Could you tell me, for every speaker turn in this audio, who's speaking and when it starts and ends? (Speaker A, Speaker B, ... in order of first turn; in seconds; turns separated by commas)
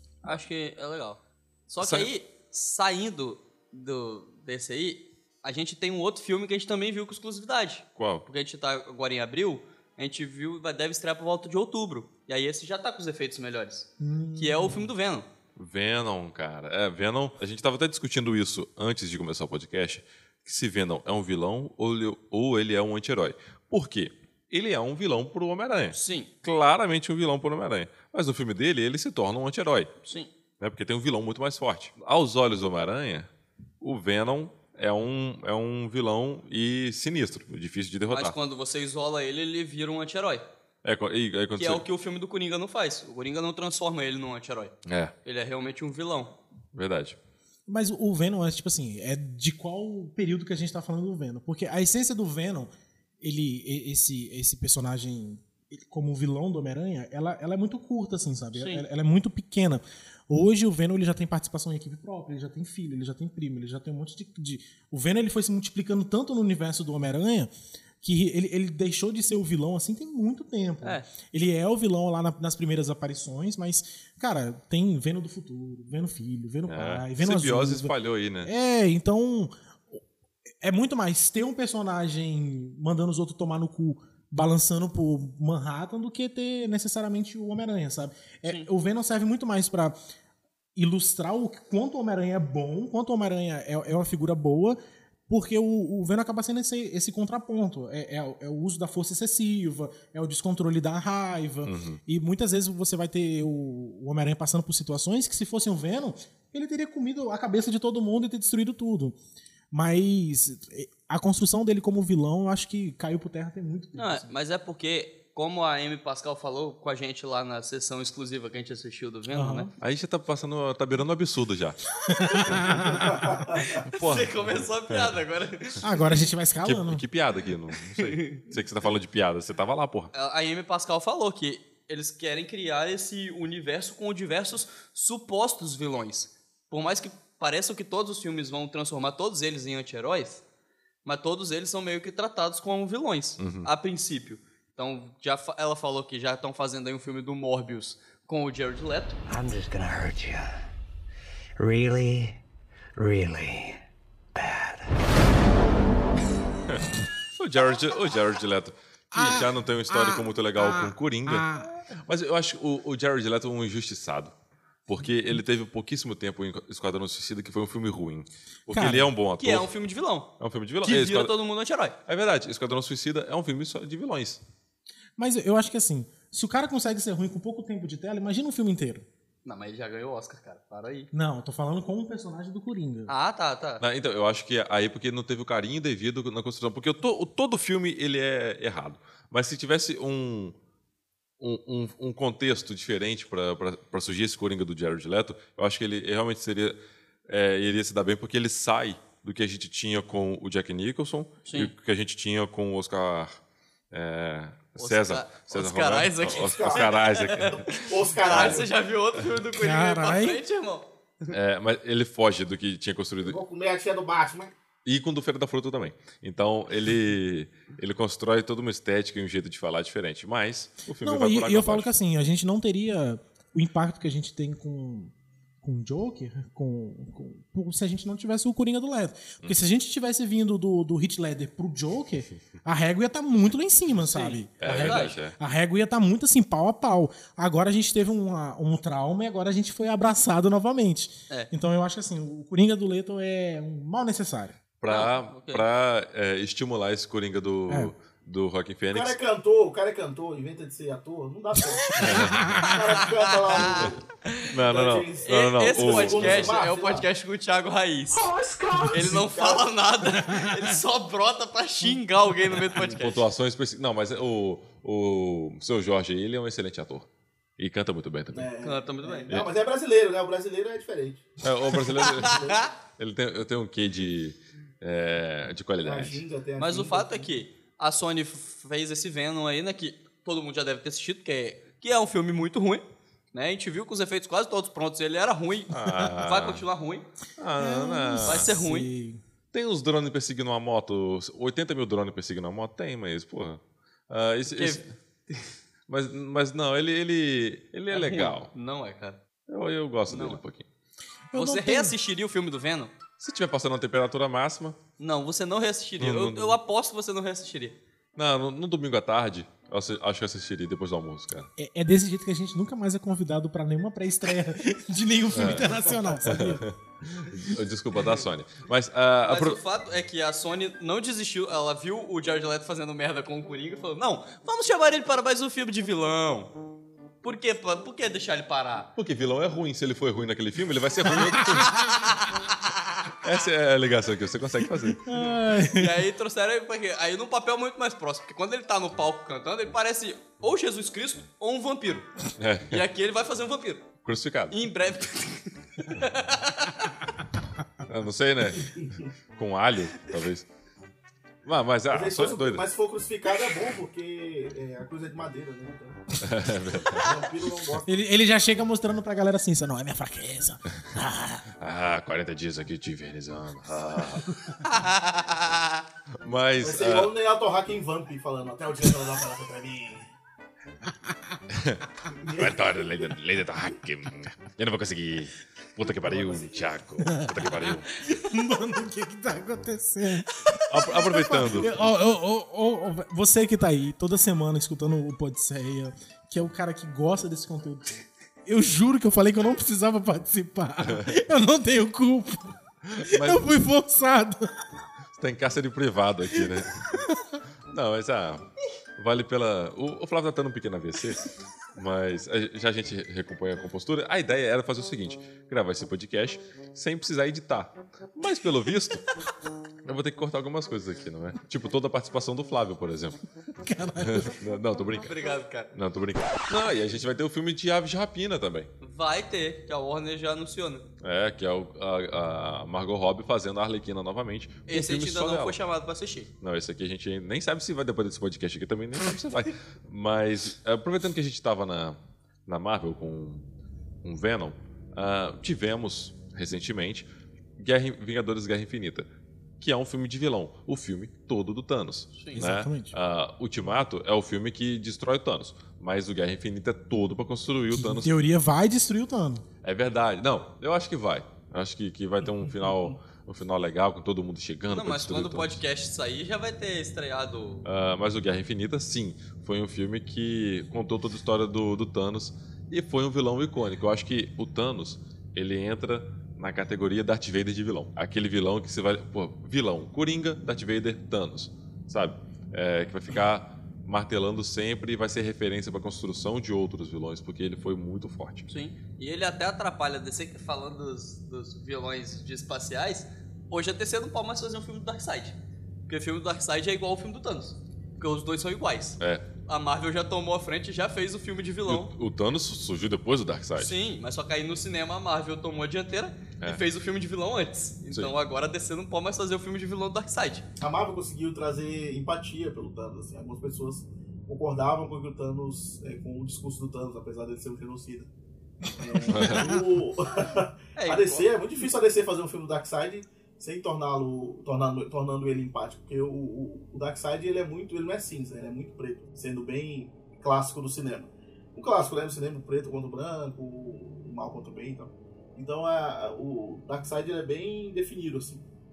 Speaker A: 0.2-15.3, Speaker B: 1.8-2.1, Speaker B: 8.0-8.2, Speaker C: 14.0-14.9, Speaker B: 15.6-29.9, Speaker A: 25.9-26.3, Speaker A: 30.0-30.3, Speaker B: 30.6-33.3, Speaker B: 33.8-38.4, Speaker A: 38.1-40.4, Speaker B: 40.8-41.8, Speaker A: 41.5-44.7, Speaker B: 44.9-45.1, Speaker A: 45.2-46.4, Speaker B: 46.7-47.2, Speaker C: 47.7-67.5, Speaker A: 58.5-58.9, Speaker C: 68.0-80.0, Speaker A: 70.8-71.1, Speaker B: 76.7-78.5, Speaker C: 80.6-90.0, Speaker C: 90.8-109.2, Speaker B: 101.6-102.0, Speaker C: 109.7-114.3, Speaker A: 113.9-119.7, Speaker C: 119.3-119.7, Speaker B: 119.8-121.8, Speaker C: 122.0-123.4, Speaker D: 123.0-123.6, Speaker A: 123.5-126.1, Speaker B: 123.8-125.1, Speaker C: 125.8-127.0, Speaker B: 126.6-130.1, Speaker A: 128.0-128.4, Speaker A: 130.1-140.4, Speaker A: 141.0-149.2, Speaker B: 143.4-143.7, Speaker E: 149.3-150.6, Speaker E: 151.6-152.4, Speaker E: 153.0-153.8, Speaker E: 154.3-155.1, Speaker B: 156.7-164.3, Speaker C: 159.1-161.7, Speaker B: 164.9-169.7, Speaker C: 168.7-169.1, Speaker A: 169.4-170.3, Speaker B: 170.4-171.3, Speaker A: 170.8-171.9, Speaker B: 172.1-174.4, Speaker C: 175.2-179.1, Speaker A: 179.4-181.1, Speaker C: 181.1-183.1, Speaker A: 183.1-183.8, Speaker B: 183.8-190.5, Speaker B: 191.4-196.8, Speaker B: 197.3-203.4, Speaker A: 201.4-201.7, Speaker B: 203.9-208.6, Speaker A: 204.8-211.3, Speaker D: 206.3-208.7, Speaker C: 209.5-210.4, Speaker B: 211.3-213.4, Speaker D: 213.2-214.5, Speaker B: 214.8-221.9, Speaker C: 221.0-244.6, Speaker A: 234.0-235.2, Speaker B: 234.6-235.3, Speaker B: 244.8-249.2, Speaker A: 244.9-245.6, Speaker D: 248.9-254.1, Speaker B: 252.0-252.6, Speaker C: 252.0-253.0, Speaker A: 253.6-254.5, Speaker B: 254.5-256.6, Speaker D: 254.6-257.1, Speaker A: 255.2-258.3, Speaker D: 258.3-259.6, Speaker A: 258.9-263.2, Speaker B: 262.7-267.1, Speaker B: 267.6-268.5, Speaker D: 268.3-272.6, Speaker A: 268.6-269.3, Speaker B: 271.4-276.2, Speaker A: 272.0-272.6, Speaker D: 275.8-277.3, Speaker A: 276.6-287.1, Speaker B: 285.7-286.6, Speaker B: 287.4-288.5, Speaker C: 287.6-289.2, Speaker A: 288.2-288.9, Speaker B: 289.5-294.9, Speaker A: 294.5-295.5, Speaker B: 295.9-298.5, Speaker A: 297.9-299.2, Speaker B: 299.5-300.6, Speaker A: 300.1-300.4, Speaker C: 301.3-301.9, Speaker A: 301.3-302.9, Speaker B: 303.2-304.8, Speaker A: 305.0-307.8, Speaker B: 306.0-306.6, Speaker B: 308.1-311.5, Speaker C: 311.6-316.6, Speaker B: 315.3-319.6, Speaker A: 319.2-326.5, Speaker A: 327.2-328.9, Speaker B: 328.9-331.8, Speaker C: 331.2-331.7, Speaker A: 332.1-332.8, Speaker B: 333.2-335.0, Speaker C: 335.0-336.1, Speaker A: 335.1-342.1, Speaker B: 342.4-342.8, Speaker A: 342.7-343.9, Speaker B: 344.0-344.6, Speaker A: 344.5-346.9, Speaker B: 347.9-348.8, Speaker D: 348.6-348.9, Speaker B: 349.4-350.5, Speaker B: 351.4-352.6, Speaker D: 351.9-356.0, Speaker B: 356.2-357.1, Speaker D: 356.9-357.9, Speaker C: 357.8-361.4, Speaker B: 361.6-364.4, Speaker C: 364.3-364.5, Speaker A: 364.6-365.8, Speaker B: 366.2-367.1, Speaker D: 366.6-370.1, Speaker C: 371.0-371.4, Speaker B: 371.5-371.8, Speaker D: 372.2-372.6, Speaker B: 372.3-377.9, Speaker D: 376.0-376.6, Speaker C: 377.0-394.6, Speaker B: 380.7-381.8, Speaker B: 392.9-393.5, Speaker B: 395.2-396.8, Speaker C: 396.4-397.4, Speaker B: 397.7-398.4, Speaker B: 399.0-409.1, Speaker B: 409.8-413.2, Speaker C: 413.6-414.4, Speaker B: 414.0-415.1, Speaker A: 415.0-415.7, Speaker B: 415.7-418.7, Speaker A: 418.8-420.9, Speaker B: 421.0-425.6, Speaker A: 424.7-426.3, Speaker B: 426.4-433.4, Speaker B: 434.0-437.1, Speaker B: 437.6-439.1, Speaker B: 439.6-448.1, Speaker A: 442.1-442.5, Speaker C: 442.4-442.9, Speaker C: 447.7-449.4, Speaker B: 449.6-455.6, Speaker D: 452.6-452.9, Speaker A: 454.7-457.6, Speaker B: 457.6-478.5, Speaker A: 478.5-485.4, Speaker A: 485.9-491.9, Speaker B: 489.0-489.2, Speaker B: 491.7-493.8, Speaker A: 493.6-500.4, Speaker D: 500.6-508.1, Speaker D: 508.8-528.4, Speaker C: 508.9-509.9, Speaker B: 509.1-509.5, Speaker A: 510.8-511.3